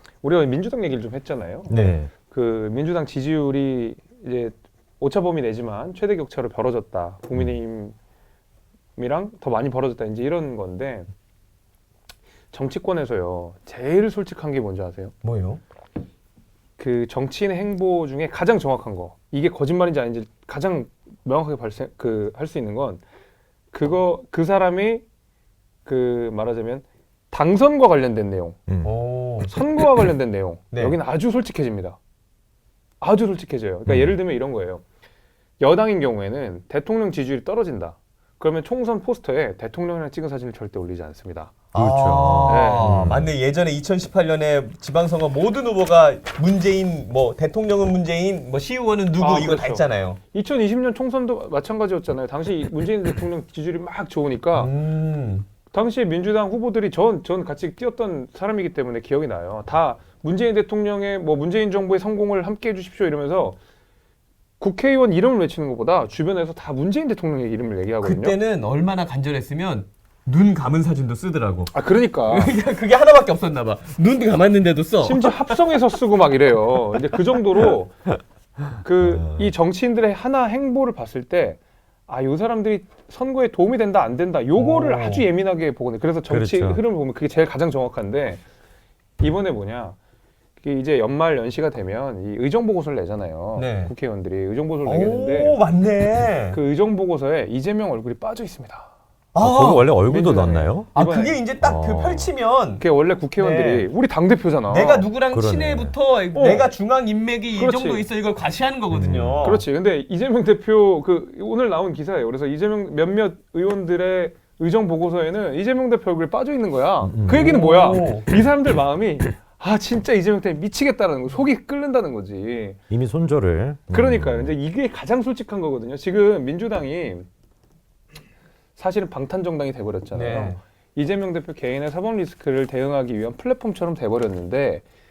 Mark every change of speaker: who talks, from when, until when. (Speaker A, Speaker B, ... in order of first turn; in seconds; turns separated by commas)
Speaker A: 0.2-8.0, Speaker B: 1.7-2.0, Speaker C: 1.8-2.1, Speaker A: 9.0-11.1, Speaker A: 12.5-15.1, Speaker B: 15.2-15.6, Speaker A: 16.8-23.0, Speaker A: 23.7-25.0, Speaker A: 25.9-28.6, Speaker C: 28.7-29.5, Speaker B: 28.8-29.5, Speaker A: 29.5-32.0, Speaker B: 30.7-31.0, Speaker A: 33.0-34.8, Speaker C: 33.9-34.1, Speaker A: 35.6-41.5, Speaker B: 41.7-50.2, Speaker C: 41.7-43.3, Speaker A: 42.5-42.9, Speaker A: 49.2-54.7, Speaker B: 54.5-55.5, Speaker A: 55.7-63.6, Speaker A: 64.6-68.4, Speaker B: 68.0-75.6, Speaker A: 71.7-72.6, Speaker A: 75.0-78.0, Speaker A: 78.8-88.4, Speaker B: 84.5-85.3, Speaker C: 86.3-86.8, Speaker A: 89.2-90.0, Speaker A: 90.6-95.6, Speaker B: 93.5-93.9, Speaker B: 94.8-96.6, Speaker A: 96.5-98.9, Speaker B: 99.3-100.1, Speaker C: 99.4-100.9, Speaker A: 100.1-101.4, Speaker B: 100.9-102.8, Speaker C: 101.6-102.3, Speaker A: 102.8-105.1, Speaker B: 103.4-103.9, Speaker B: 104.7-109.7, Speaker C: 105.3-106.0, Speaker A: 106.3-106.7, Speaker A: 107.5-108.1, Speaker C: 108.9-109.5, Speaker A: 109.4-122.8, Speaker C: 117.0-117.4, Speaker B: 117.3-118.3, Speaker C: 122.9-124.5, Speaker A: 123.9-127.3, Speaker A: 128.8-134.8, Speaker B: 130.1-130.6